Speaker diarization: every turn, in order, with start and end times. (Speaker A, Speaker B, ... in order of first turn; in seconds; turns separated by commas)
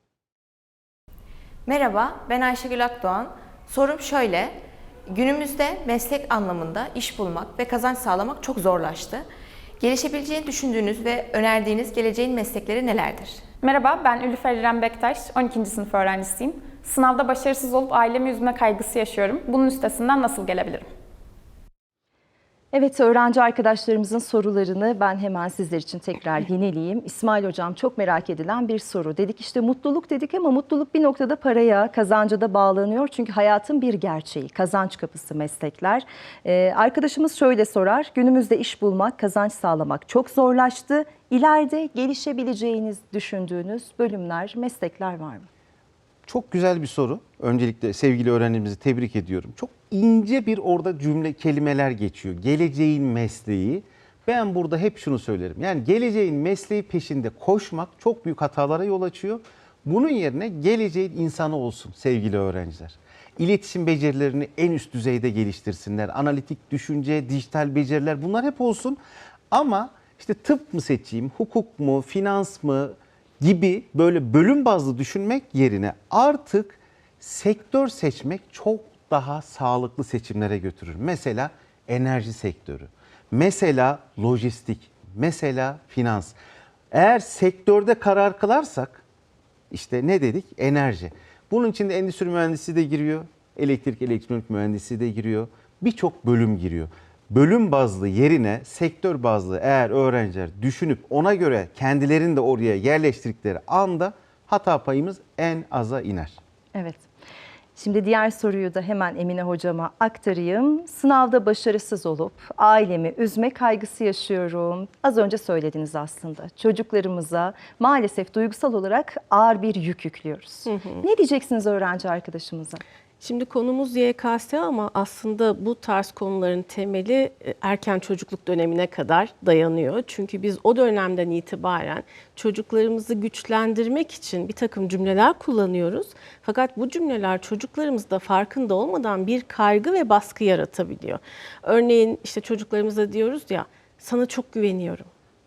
Speaker A: 1.7-4.6, Speaker A: 5.1-9.2, Speaker A: 9.8-13.5, Speaker B: 13.6-20.9, Speaker C: 22.7-45.5, Speaker D: 46.3-69.0, Speaker D: 69.5-86.4, Speaker D: 86.9-89.0, Speaker D: 89.7-106.4, Speaker C: 106.7-107.0, Speaker C: 107.8-122.8, Speaker E: 120.7-121.0, Speaker E: 123.2-145.1